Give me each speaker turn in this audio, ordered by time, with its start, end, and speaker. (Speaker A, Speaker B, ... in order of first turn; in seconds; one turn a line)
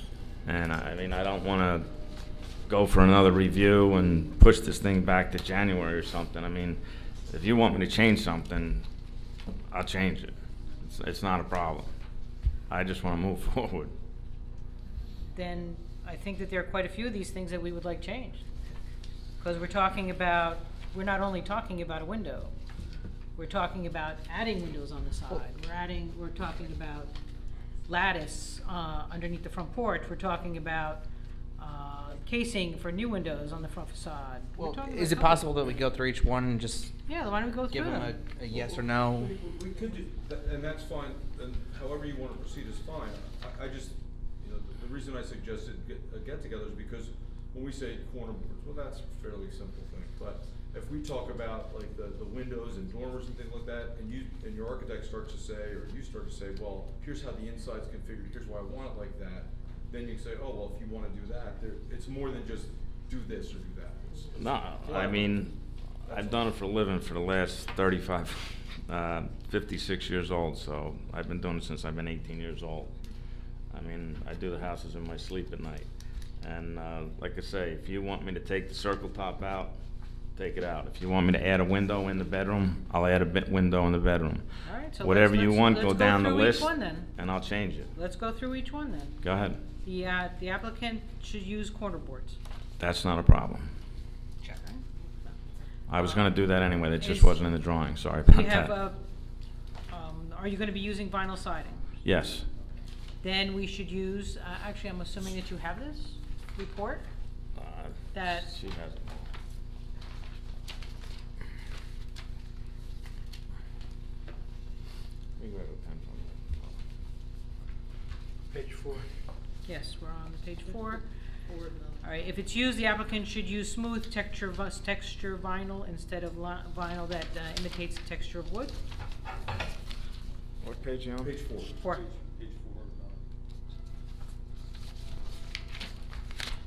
Speaker A: 0.5-1.9
Speaker A: 2.7-8.9
Speaker A: 9.7-11.9
Speaker A: 12.7-13.9
Speaker B: 15.3-18.4
Speaker B: 19.4-22.5
Speaker B: 23.4-27.1
Speaker B: 27.9-31.1
Speaker B: 31.6-35.6
Speaker C: 34.6-37.0
Speaker B: 37.1-38.2
Speaker C: 37.7-39.4
Speaker D: 38.5-65.3
Speaker A: 64.4-72.9
Speaker A: 73.7-75.9
Speaker A: 76.4-79.8
Speaker A: 80.4-84.5
Speaker B: 84.6-87.1
Speaker A: 85.0-87.9
Speaker B: 88.0-89.2
Speaker A: 89.2-89.6
Speaker B: 89.8-92.4
Speaker A: 92.8-93.7
Speaker C: 94.4-94.7
Speaker A: 95.9-98.7
Speaker B: 96.0-96.3
Speaker B: 97.0-97.4
Speaker B: 98.3-99.0
Speaker B: 99.9-101.8
Speaker A: 102.0-102.5
Speaker B: 103.2-107.1
Speaker A: 107.6-109.3
Speaker B: 108.1-108.5
Speaker A: 115.4-116.8
Speaker B: 119.7-121.0
Speaker B: 122.0-128.8
Speaker A: 130.6-131.3
Speaker D: 131.2-131.8
Speaker B: 131.8-132.0